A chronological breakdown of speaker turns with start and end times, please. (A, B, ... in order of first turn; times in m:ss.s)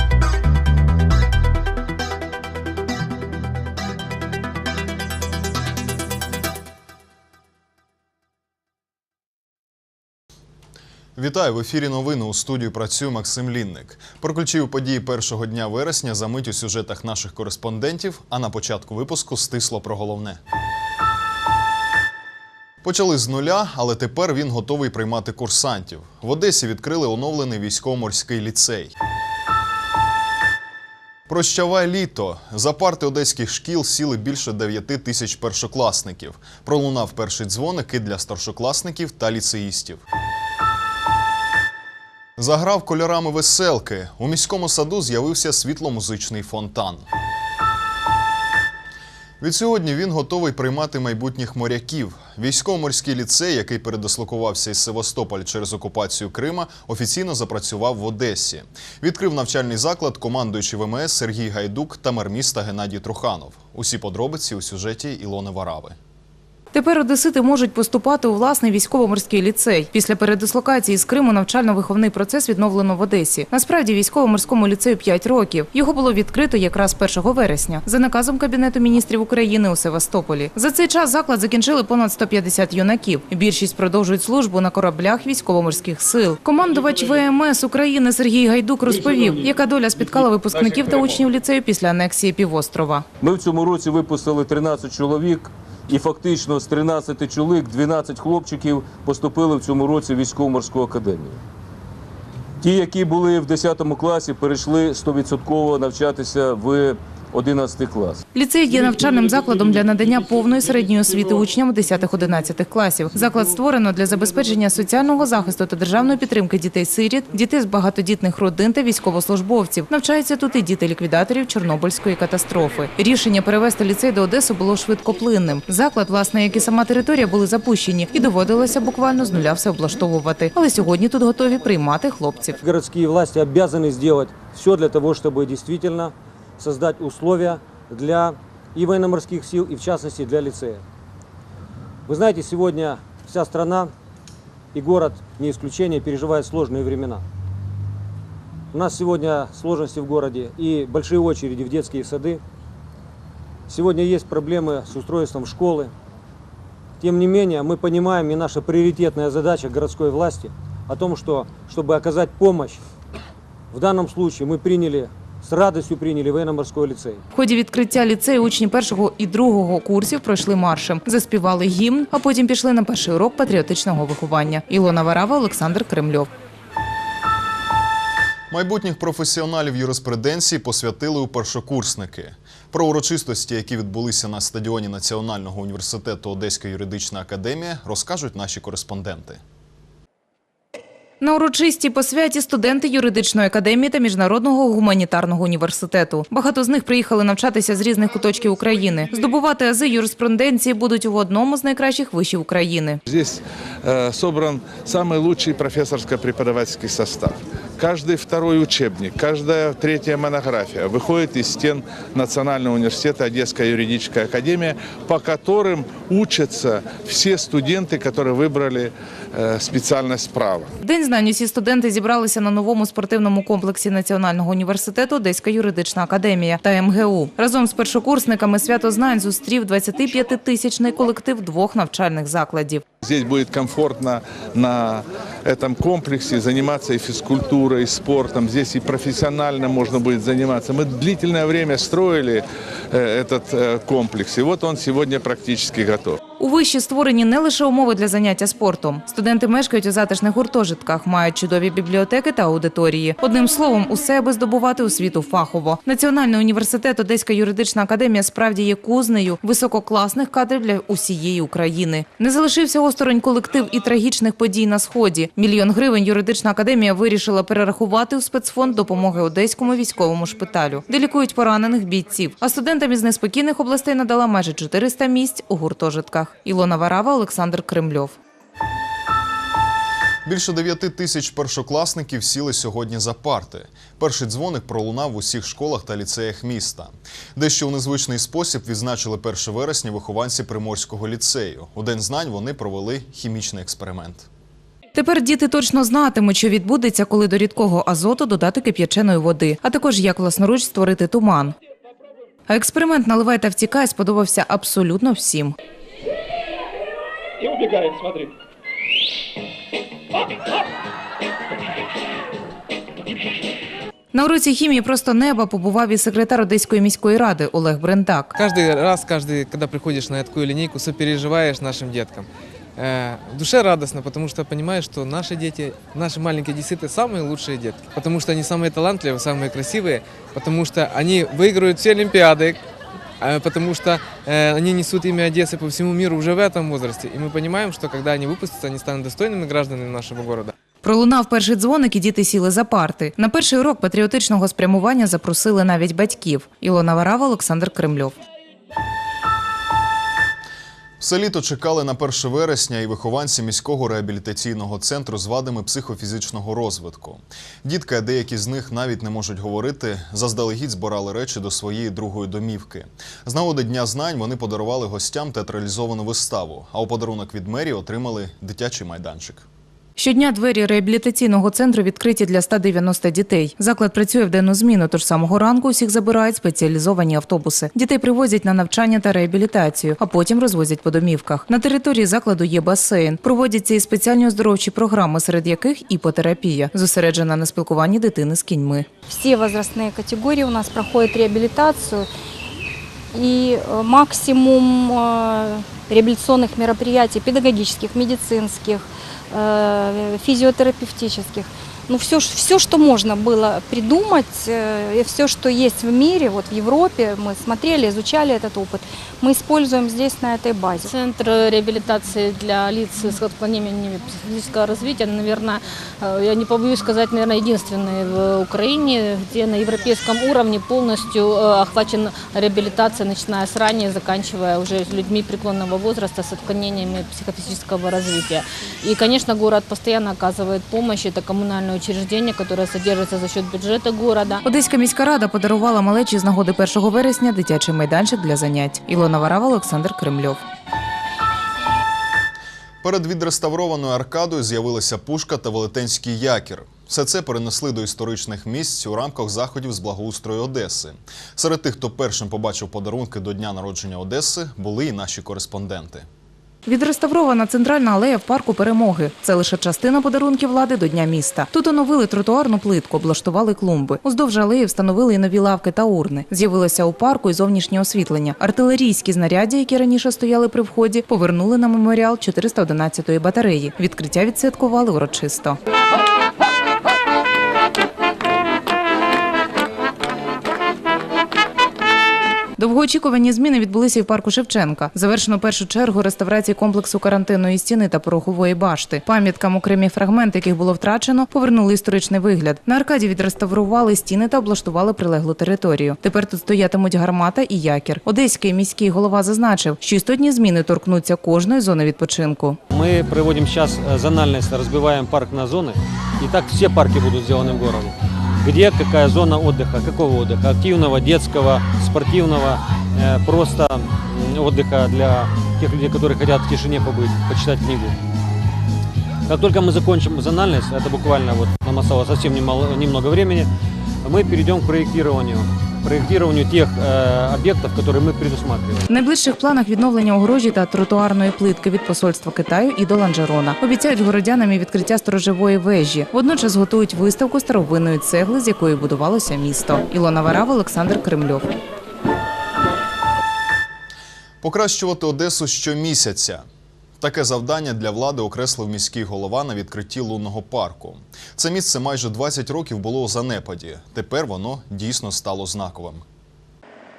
0:11.2-0:20.4 A
0:22.8-0:28.9 A
0:31.3-0:40.0 A
0:42.4-0:47.0 A
0:49.4-1:06.0 A
1:06.7-1:33.0 B
1:28.9-1:29.2 C
1:30.4-1:31.2 C
1:33.2-1:41.4 C
1:42.6-1:48.2 C
1:48.3-2:12.6 B
2:12.6-2:20.8 D
2:22.1-2:23.9 D
2:24.7-2:27.2 D
2:28.7-2:32.4 D
2:33.7-2:35.9 D
2:37.0-2:42.8 D
2:43.7-2:47.2 D
2:47.3-2:56.3 B
2:58.5-3:09.4 A
3:11.2-3:23.0 B
3:23.1-3:40.7 E
3:40.8-3:52.8 B
3:53.0-4:06.2 E
4:06.4-4:38.2 B
4:40.3-4:54.3 A
4:55.0-5:01.6 B
5:02.5-5:05.6 B
5:14.1-5:18.3 B
5:18.4-5:22.3 F
5:22.8-5:32.6 F
5:33.2-5:40.5 F
5:40.8-5:48.2 B
5:51.0-6:09.4 A
6:10.0-6:28.9 B
6:29.1-6:32.1 G
6:33.1-6:50.9 G
6:51.0-6:55.6 H
6:56.1-7:14.3 H
7:14.4-7:20.4 B
7:22.8-7:36.1 A
7:36.7-7:55.6 B
8:02.6-8:22.6 B
8:22.7-8:38.0 D
8:39.3-8:43.5 D
8:44.0-8:48.8 D
8:48.9-9:01.5 B
9:04.4-9:06.4 A
9:07.0-9:16.0 A